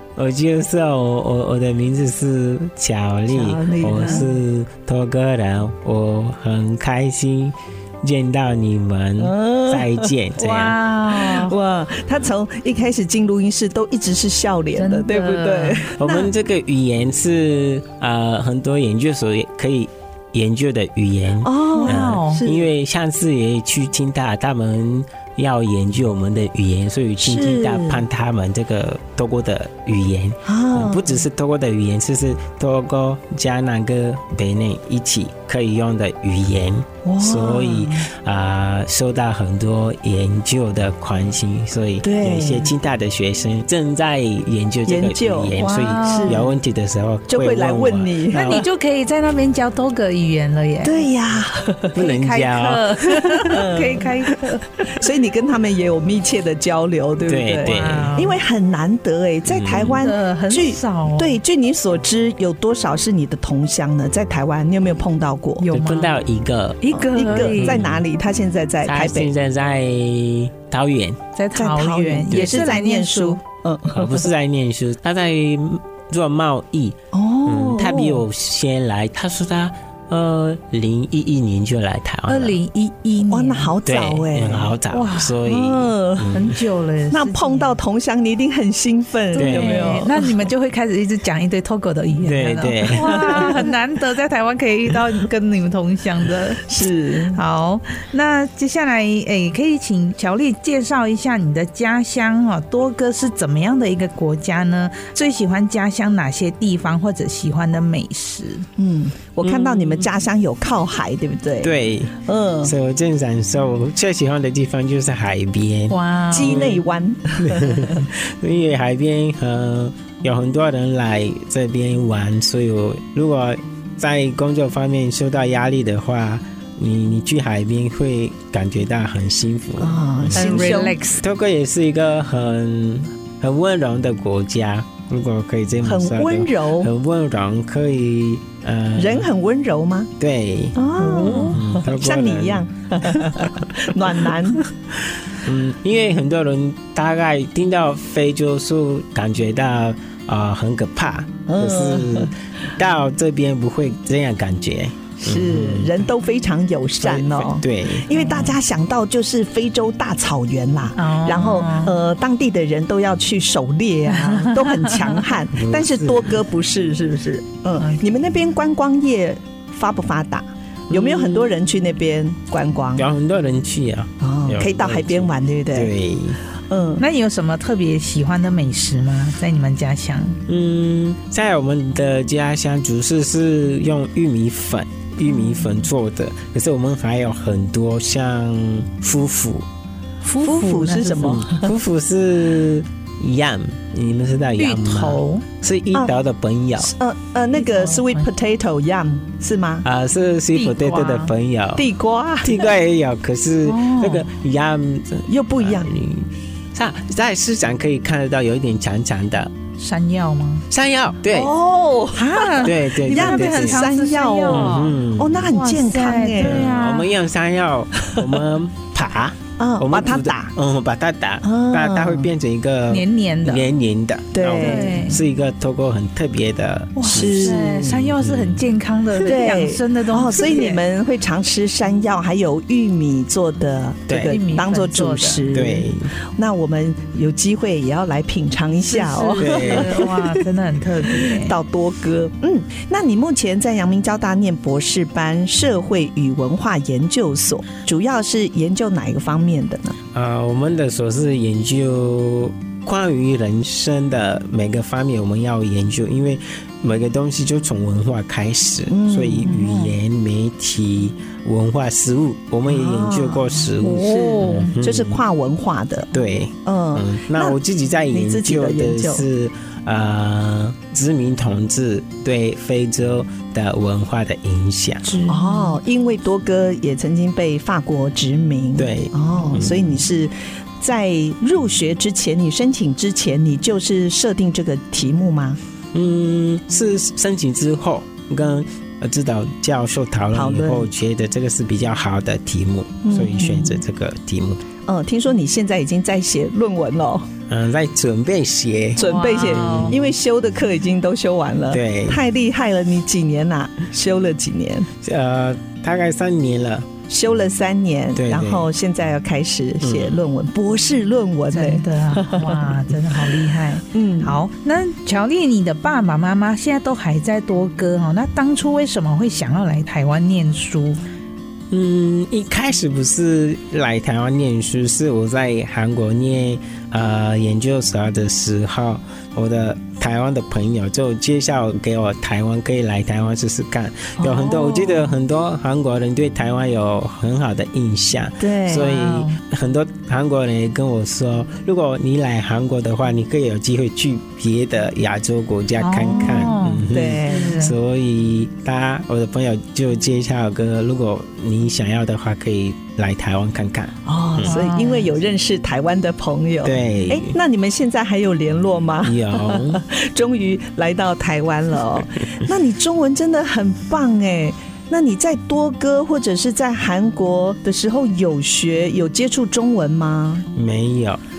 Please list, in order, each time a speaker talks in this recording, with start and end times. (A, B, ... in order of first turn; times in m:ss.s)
0:00.2-0:10.8 A
0:03.3-0:04.3 B
0:04.0-0:04.2 C
0:09.2-0:10.1 B
0:10.4-0:11.5 C
0:11.1-0:16.3 B
0:14.8-0:15.8 C
0:16.0-0:48.1 A
0:21.4-0:22.7 B
0:21.7-0:22.4 C
0:27.2-0:28.0 B
0:30.4-0:31.2 B
0:37.0-0:38.0 B
0:42.0-0:42.7 B
0:44.8-0:46.6 B
0:45.6-0:46.4 C
0:47.3-0:48.6 B
0:48.3-0:51.0 C
0:50.8-0:51.9 B
0:51.9-0:53.3 A
0:52.0-0:54.6 C
0:53.4-0:54.1 B
0:54.8-1:05.6 B
0:57.3-0:58.1 A
0:57.6-0:58.4 C
0:59.5-1:00.0 A
0:59.8-1:01.4 C
1:05.6-1:06.1 C
1:05.7-1:08.0 A
1:06.8-1:07.8 C
1:07.1-1:09.3 B
1:08.8-1:11.2 A
1:11.4-1:13.4 C
1:11.6-1:14.3 B
1:12.3-1:12.7 A
1:13.9-1:22.6 A
1:17.1-1:18.2 B
1:22.3-1:23.7 C
1:23.2-1:24.8 B
1:23.8-1:26.6 A
1:24.9-1:25.4 C
1:25.4-1:26.3 B
1:26.3-1:27.7 C
1:27.1-1:30.2 B
1:29.3-1:36.6 C
1:29.4-1:30.0 A
1:32.2-1:33.5 A
1:33.0-1:33.6 B
1:36.6-1:37.4 B
1:37.3-1:48.7 C
1:48.8-1:52.7 B
1:49.4-1:50.1 A
1:51.6-1:56.8 A
1:55.9-1:56.6 C
1:56.3-1:58.0 B
1:57.4-2:19.3 A
2:09.8-2:11.0 B
2:10.3-2:11.2 C
2:15.8-2:16.9 B
2:19.0-2:20.1 B
2:20.2-2:23.6 A
2:20.8-2:24.6 B
2:21.0-2:21.6 C
2:24.9-2:35.9 A
2:31.5-2:32.3 B
2:35.2-2:53.1 B
2:37.0-2:38.1 A
2:38.1-2:38.5 C
2:41.0-2:41.9 C
2:44.1-2:45.2 C
2:45.5-2:46.4 A
2:50.9-2:51.5 A
2:53.0-2:56.4 A
2:54.2-2:55.9 B
2:56.7-2:57.0 B
2:57.0-3:00.4 C
3:00.5-3:09.7 A
3:05.3-3:05.6 C
3:10.2-3:11.4 C
3:10.4-3:11.7 B
3:11.2-3:16.9 A
3:14.6-3:15.4 C
3:16.8-3:19.8 B
3:17.6-3:18.2 C
3:19.8-3:21.8 A
3:20.5-3:21.3 C
3:21.8-3:22.7 B
3:22.4-3:29.5 A
3:23.6-3:24.2 C
3:25.3-3:25.9 B
3:29.8-3:30.6 C
3:30.7-3:31.5 A
3:31.3-3:36.7 B
3:32.2-3:34.9 C
3:32.6-3:33.8 A
3:34.5-3:35.5 A
3:35.5-3:37.0 C
3:36.4-3:48.7 A
3:39.6-3:40.5 B
3:41.4-3:42.3 B
3:42.9-3:43.6 C
3:44.3-3:45.0 B
3:44.6-3:45.2 C
3:47.0-3:50.8 C
3:47.0-3:47.9 B
3:49.2-4:00.2 B
3:54.1-3:54.4 A
3:54.2-3:55.4 C
3:55.5-3:56.1 A
3:58.9-4:01.5 C
3:59.4-4:00.1 A
4:01.2-4:10.0 B
4:10.1-4:25.2 A
4:18.9-4:19.6 B
4:19.5-4:19.9 C
4:22.7-4:26.1 B
4:23.8-4:24.7 C
4:26.1-4:35.0 A
4:26.6-4:27.6 B
4:28.1-4:29.2 B
4:35.0-4:35.8 C
4:35.3-4:45.6 B
4:38.8-4:40.0 A
4:45.9-4:54.6 A
4:50.3-4:50.9 B
4:53.0-4:53.8 B
4:54.9-4:57.3 B
4:57.5-5:00.0 A
4:59.0-5:00.0 C
4:59.0-5:04.9 B
5:01.7-5:02.2 A
5:05.0-5:06.9 A
5:07.1-5:12.7 B
5:08.2-5:08.7 A
5:09.8-5:10.2 A
5:11.5-5:21.0 C
5:13.9-5:14.3 B
5:21.7-5:54.6 A
5:34.2-5:35.0 B
5:38.4-5:38.9 B
5:38.7-5:39.4 C
5:45.8-5:47.7 C
5:46.9-5:47.6 B
5:54.0-6:10.4 B
5:54.4-5:55.1 C
5:56.6-5:57.4 A
5:59.0-5:59.8 A
6:10.5-6:11.2 A